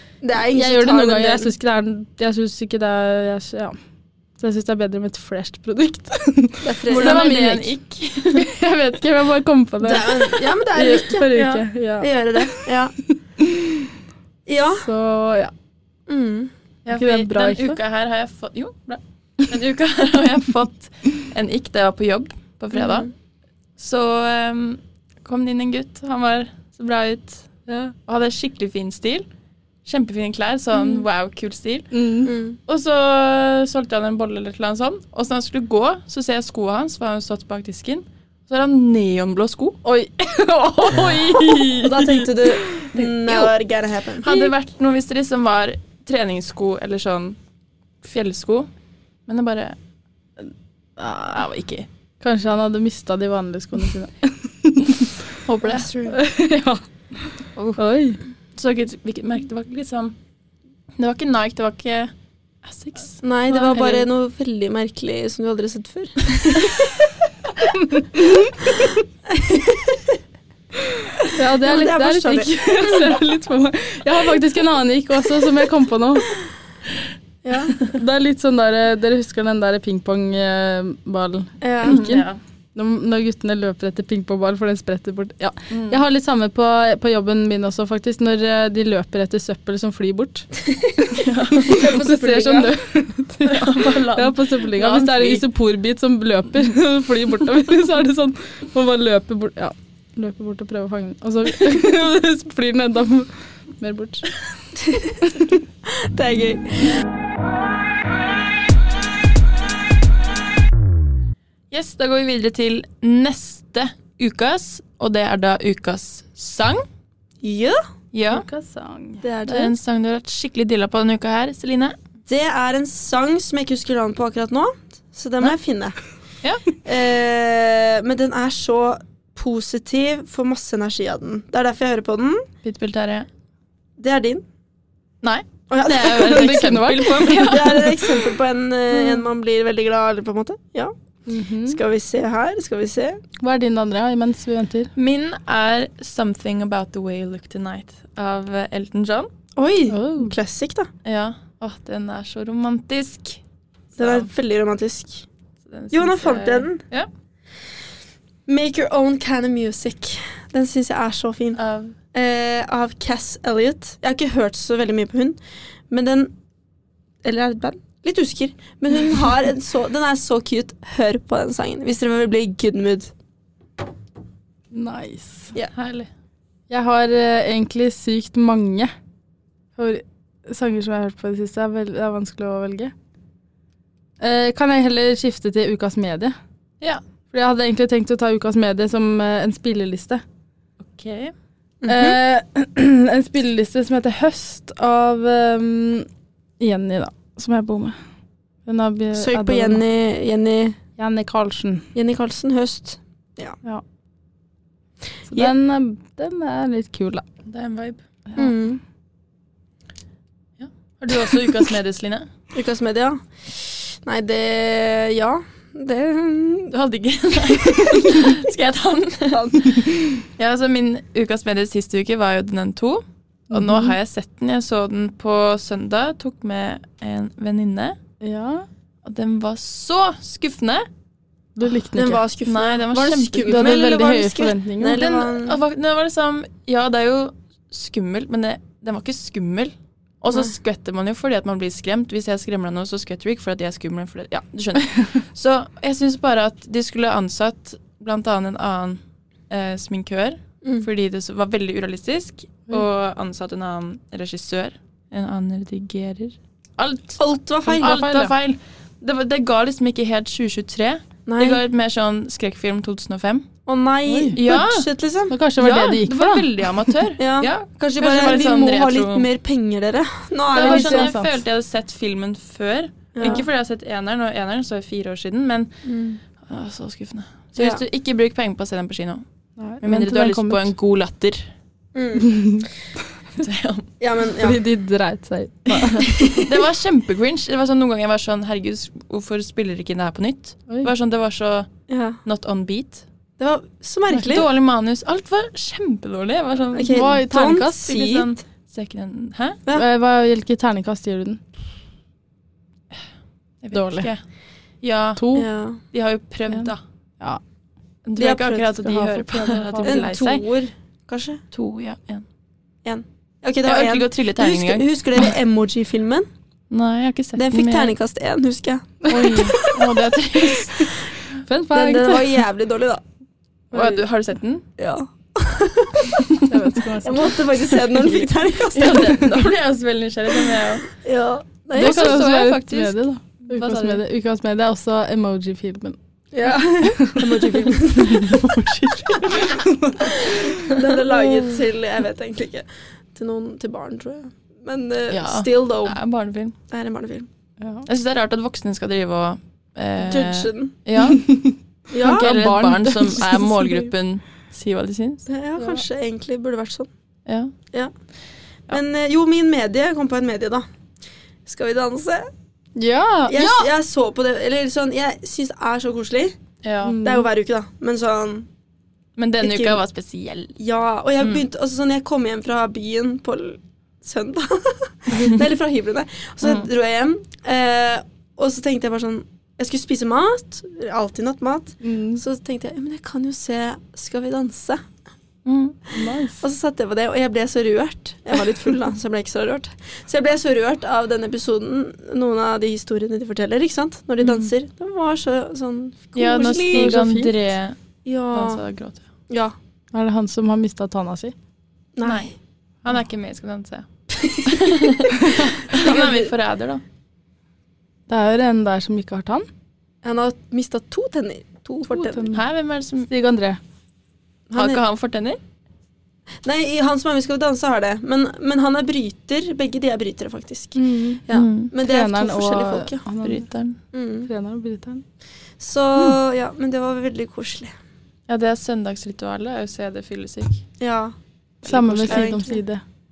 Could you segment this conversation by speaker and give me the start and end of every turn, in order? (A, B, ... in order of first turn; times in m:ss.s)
0:00.2-0:01.5 A
0:00.5-0:03.8 B
0:04.4-0:07.7 B
0:06.6-0:07.4 A
0:06.9-0:08.5 C
0:08.4-0:10.2 B
0:09.8-0:11.4 A
0:10.7-0:12.7 B
0:11.4-0:11.6 C
0:12.0-0:12.9 A
0:13.4-0:13.9 B
0:14.5-0:14.9 A
0:14.8-0:15.5 B
0:16.1-0:16.5 A
0:16.8-0:23.1 C
0:16.9-0:17.8 B
0:22.7-0:23.1 A
0:23.8-0:27.5 C
0:27.7-0:27.9 B
0:28.1-0:29.2 C
0:29.8-0:32.0 C
0:30.8-0:31.0 A
0:31.9-0:32.3 B
0:32.2-0:32.6 A
0:32.7-0:39.8 C
0:39.8-0:42.8 B
0:41.8-0:44.5 A
0:42.9-0:43.5 C
0:44.2-0:47.4 C
0:48.0-0:48.7 C
0:49.3-0:49.8 C
0:51.0-0:51.4 B
0:51.3-0:51.9 C
0:52.2-0:55.2 B
0:55.4-0:55.9 C
0:55.6-0:56.2 A
0:56.1-0:58.2 B
0:58.6-1:00.2 C
1:01.0-1:02.1 C
1:02.6-1:03.2 C
1:03.2-1:07.1 A
1:03.5-1:04.1 B
1:07.7-1:08.6 B
1:08.8-1:10.2 A
1:11.2-1:13.1 A
1:11.3-1:16.3 B
1:17.4-1:17.8 A
1:17.8-1:30.5 B
1:21.6-1:22.0 A
1:21.8-1:22.4 C
1:25.7-1:26.0 C
1:30.6-1:31.1 A
1:31.1-1:32.0 C
1:31.6-1:44.4 B
1:31.6-1:32.7 A
1:33.4-1:35.4 C
1:44.8-1:45.3 A
1:45.2-1:45.5 B
1:45.8-1:47.0 A
1:51.7-1:56.8 C
1:57.4-1:57.8 A
1:58.1-1:58.4 C
1:58.3-1:59.2 B
1:59.2-1:59.8 A
1:59.5-2:02.0 C
2:02.3-2:06.0 A
2:06.4-2:06.7 C
2:06.8-2:12.5 A
2:12.6-2:13.3 C
2:14.0-2:14.4 A
2:15.2-2:18.2 C
2:15.7-2:16.6 A
2:16.1-2:17.6 B
2:17.3-2:20.9 A
2:18.9-2:19.3 B
2:21.3-2:21.8 B
2:21.7-2:23.2 A
2:23.4-2:24.9 B
2:25.0-2:29.3 C
2:29.6-2:30.9 A
2:29.9-2:30.3 B
2:31.0-2:33.4 C
2:34.0-2:35.3 A
2:35.7-2:37.1 C
2:35.9-2:36.8 A
2:38.5-2:41.6 A
2:41.6-2:42.0 C
2:42.1-2:45.4 A
2:45.9-2:46.3 A
2:47.2-2:53.1 A
2:54.7-2:55.6 B
2:55.7-2:56.1 C
2:56.7-2:58.9 B
2:59.8-3:02.9 B
3:04.2-3:06.4 B
3:07.3-3:10.2 B
3:10.8-3:11.3 C
3:11.8-3:12.2 A
3:11.9-3:16.1 B
3:16.6-3:18.0 B
3:18.7-3:19.8 B
3:19.2-3:20.8 A
3:21.0-3:21.9 B
3:22.0-3:23.6 A
3:25.3-3:27.2 B
3:27.5-3:28.0 C
3:28.4-3:28.8 A
3:30.6-3:32.3 C
3:32.5-3:36.7 A
3:36.7-3:48.0 C
3:39.3-3:39.7 A
3:43.5-3:44.0 B
3:48.2-3:48.7 B
3:49.0-3:50.9 C
3:51.6-3:52.2 B
3:52.0-3:55.6 A
3:52.4-3:53.9 C
3:53.5-3:55.0 B
3:54.9-4:17.2 C
4:17.2-4:18.0 A
4:17.7-4:18.3 B
4:17.8-4:23.5 C
4:21.3-4:21.6 A
4:23.7-4:25.4 A
4:24.1-4:24.4 B
4:24.4-4:24.9 C
4:25.3-4:26.5 B
4:25.6-4:29.3 C
4:27.2-4:31.1 A
4:30.5-4:35.7 C
4:30.6-4:31.4 B
4:33.2-4:33.5 A
4:35.8-4:36.2 A
4:36.4-4:39.2 C
4:37.6-4:37.8 A
4:39.6-4:40.7 B
4:39.8-4:41.5 C
4:41.9-4:42.5 A
4:42.2-4:42.7 B
4:43.4-4:43.9 C
4:44.0-4:44.6 A
4:44.4-4:46.1 B
4:45.7-4:51.7 C
4:46.1-4:46.5 A
4:51.9-4:52.2 A
4:52.2-4:53.0 C
4:53.4-4:54.5 A
4:54.1-4:59.6 C
4:56.7-4:58.3 A
4:56.9-4:57.9 B
4:59.7-5:01.4 B
5:03.6-5:04.2 C
5:03.7-5:04.1 B
5:04.8-5:05.3 C
5:05.2-5:05.5 B
5:05.4-5:05.8 A
5:05.9-5:06.8 C
5:06.5-5:07.4 B
5:08.1-5:10.4 C
5:08.2-5:08.7 A
5:08.8-5:10.1 B
5:09.8-5:11.4 A
5:11.5-5:12.2 C
5:12.8-5:16.3 A
5:13.6-5:15.3 C
5:16.7-5:17.9 C
5:17.4-5:19.7 A
5:19.0-5:19.7 B
5:19.1-5:21.0 C
5:21.4-5:22.4 B
5:21.7-5:23.0 A
5:23.7-5:24.0 B
5:23.7-5:24.6 C
5:24.8-5:26.2 A
5:26.5-5:27.7 B
5:27.0-5:29.5 A
5:28.7-5:30.9 C
5:30.9-5:32.2 A
5:31.7-5:36.0 B
5:31.8-5:34.0 C
5:36.3-5:39.2 A
5:36.5-5:37.6 B
5:37.8-5:39.6 C
5:39.4-5:40.8 B
5:40.2-5:46.0 A
5:45.1-5:46.6 C
5:46.7-5:47.3 A
5:47.6-5:47.9 B
5:47.9-5:51.4 C
5:50.0-5:50.7 A
5:51.1-5:53.8 B
5:51.9-5:52.3 A
5:52.0-5:55.3 C
5:55.3-5:56.9 A
5:55.6-5:55.8 B
5:57.3-5:57.5 C
5:58.7-6:00.7 A
6:01.5-6:02.3 A
6:02.8-6:03.7 B
6:03.3-6:06.4 A
6:06.6-6:07.0 C
6:06.8-6:07.3 B
6:07.0-6:08.5 A
6:09.2-6:10.6 C
6:09.4-6:09.8 A
6:10.6-6:24.8 A
6:16.4-6:16.7 C
6:21.8-6:22.2 B
6:25.4-6:25.8 C
6:25.9-6:26.4 B
6:26.4-6:37.0 A
6:34.2-6:34.5 C
6:36.2-6:37.8 C
6:36.5-6:37.3 B
6:38.0-6:38.6 A
6:38.3-6:39.0 C
6:39.3-6:39.6 A
6:39.9-6:41.3 B
6:42.0-6:42.3 A
6:42.0-6:43.9 C
6:44.1-6:46.3 A
6:44.4-6:46.8 C
6:45.2-6:45.5 B
6:48.1-6:49.5 B
6:50.0-6:52.3 A
6:51.9-6:52.4 B
6:52.3-6:53.1 C
6:53.1-6:53.6 B
6:54.5-6:54.8 A
6:54.6-6:55.4 C
6:56.4-7:03.0 A
7:00.8-7:01.2 B
7:01.3-7:01.7 C
7:01.8-7:03.5 B
7:03.2-7:03.8 C
7:03.9-7:04.3 A
7:04.3-7:05.0 B
7:05.6-7:07.7 A
7:08.3-7:10.6 C
7:10.8-7:11.2 A
7:11.6-7:12.8 B
7:11.7-7:12.4 C
7:11.7-7:12.6 A